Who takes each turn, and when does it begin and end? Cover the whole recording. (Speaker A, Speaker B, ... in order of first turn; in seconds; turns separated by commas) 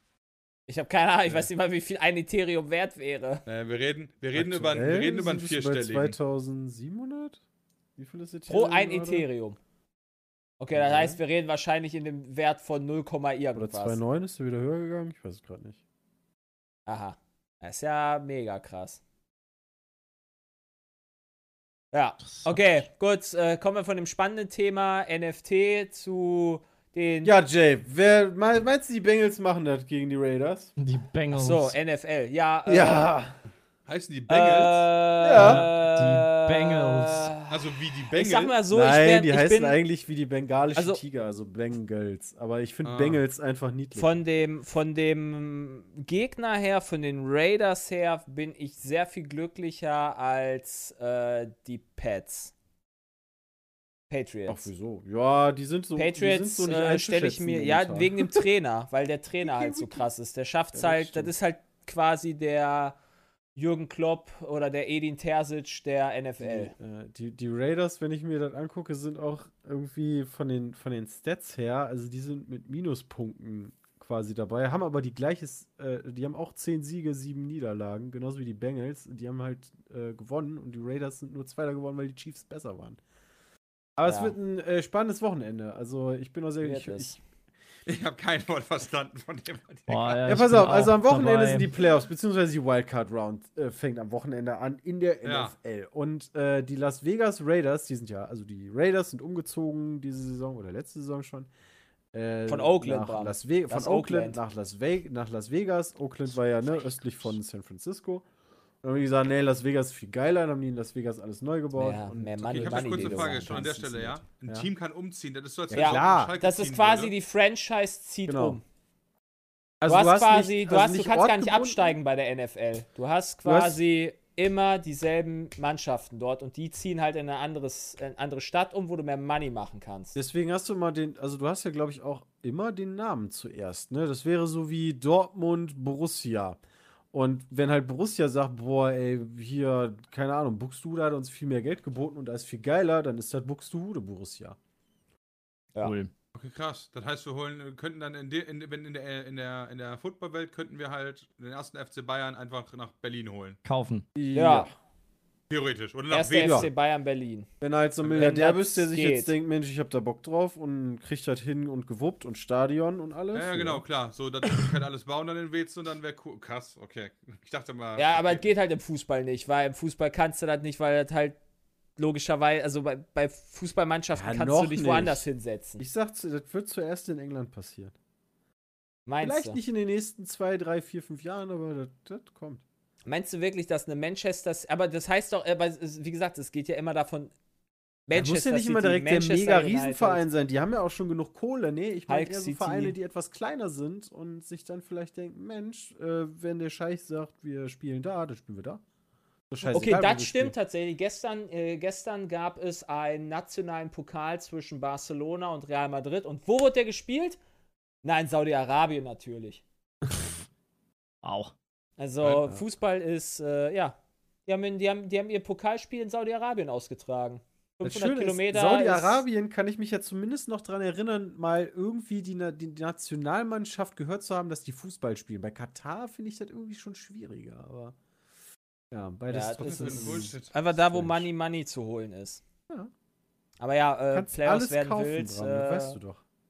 Speaker A: 0.7-3.4, Speaker B: 3.5-6.2, Speaker C: 4.3-7.4, Speaker C: 8.0-9.3, Speaker A: 8.5-9.6, Speaker A: 10.6-14.0, Speaker C: 10.7-11.2, Speaker C: 13.6-15.8, Speaker A: 16.9-19.0, Speaker A: 21.9-27.3, Speaker D: 22.3-22.6, Speaker C: 27.2-30.7, Speaker D: 30.8-31.8, Speaker A: 31.3-33.1, Speaker C: 32.7-33.4, Speaker B: 33.9-34.9, Speaker A: 34.3-39.8, Speaker C: 35.2-35.6, Speaker D: 35.3-37.3, Speaker B: 37.5-38.6, Speaker C: 38.7-44.2, Speaker A: 40.8-41.0, Speaker B: 42.8-43.2, Speaker A: 44.0-52.5, Speaker A: 54.1-54.7, Speaker C: 54.5-58.4, Speaker A: 56.0-63.0, Speaker C: 59.4-60.0, Speaker C: 60.8-61.3, Speaker A: 63.6-66.7, Speaker C: 66.4-83.0, Speaker C: 84.0-87.2, Speaker A: 84.1-84.4, Speaker A: 86.6-87.2, Speaker B: 87.9-90.3, Speaker D: 89.9-91.7, Speaker C: 90.3-101.5, Speaker B: 95.2-95.5, Speaker C: 102.1-108.2, Speaker A: 102.5-104.4, Speaker C: 108.8-114.7, Speaker A: 111.8-113.8, Speaker B: 112.5-117.1, Speaker C: 115.7-116.4, Speaker A: 115.7-118.6, Speaker C: 118.3-118.6, Speaker C: 119.8-122.0, Speaker A: 119.9-130.2, Speaker C: 123.5-123.8, Speaker C: 130.2-136.6, Speaker C: 137.1-144.6, Speaker D: 145.8-146.1, Speaker B: 146.3-153.6, Speaker D: 153.7-154.1, Speaker C: 154.2-154.7, Speaker A: 154.3-154.7, Speaker B: 155.5-156.7, Speaker A: 156.1-157.5, Speaker C: 156.4-156.7, Speaker C: 157.6-163.8, Speaker A: 158.0-159.3, Speaker B: 163.3-168.5, Speaker A: 168.0-171.4, Speaker A: 172.0-175.8, Speaker C: 174.1-175.2, Speaker C: 175.8-177.9, Speaker A: 179.1-179.6, Speaker C: 179.2-182.6, Speaker A: 183.1-187.3, Speaker A: 188.1-190.2, Speaker C: 188.1-198.8, Speaker A: 192.1-193.0, Speaker C: 199.5-200.5, Speaker A: 199.6-207.4, Speaker A: 208.0-209.6, Speaker D: 211.2-211.5, Speaker A: 212.0-219.2, Speaker C: 217.8-227.9, Speaker C: 228.9-231.3, Speaker A: 229.3-232.4, Speaker B: 229.6-230.6, Speaker A: 233.6-236.0, Speaker C: 234.1-236.2